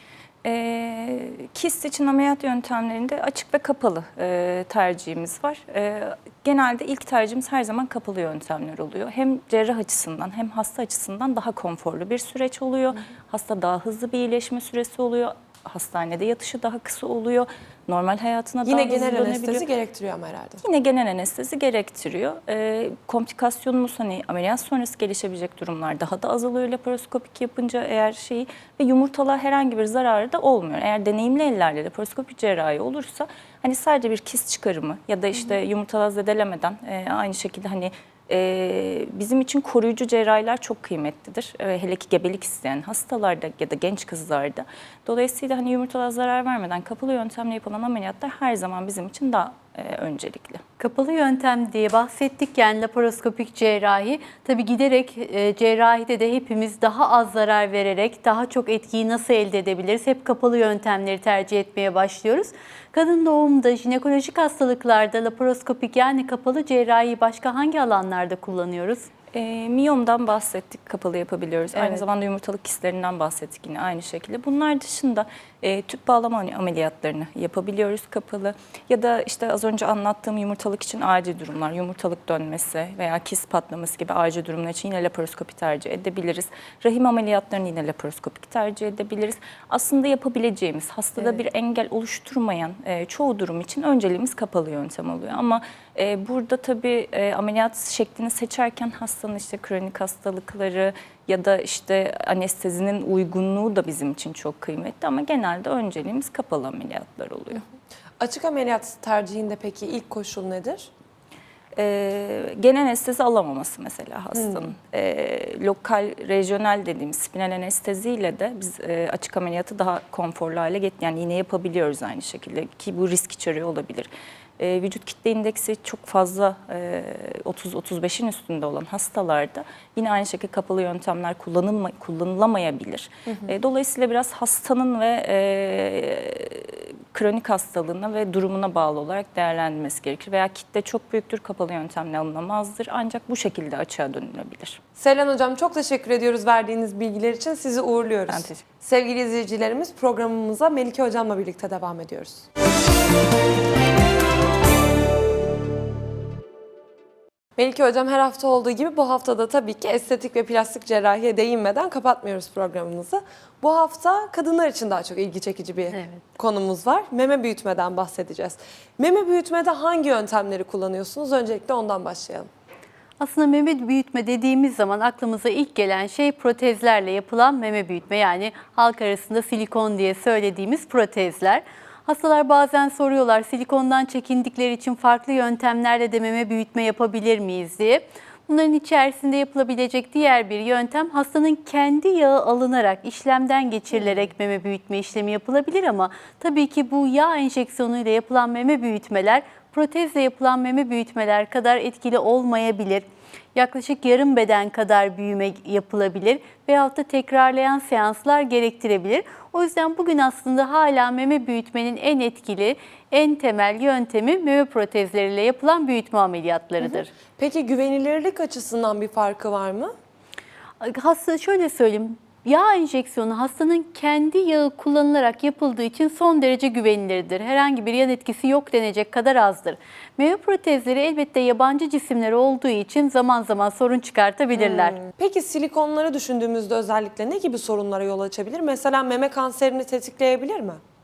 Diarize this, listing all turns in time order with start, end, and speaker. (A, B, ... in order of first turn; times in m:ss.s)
0:00.4-0:19.7 A
0:18.6-0:20.6 B
0:20.6-0:50.6 A
0:50.8-1:09.1 C
1:09.3-1:47.6 A
1:48.2-1:50.9 B
1:51.8-2:24.8 A
1:54.3-1:54.7 B
2:25.0-2:32.5 B
2:28.3-2:28.6 A
2:37.6-2:52.5 B
2:53.2-3:37.1 C
3:36.8-3:39.9 B
3:40.8-3:55.0 C
3:54.6-4:00.8 B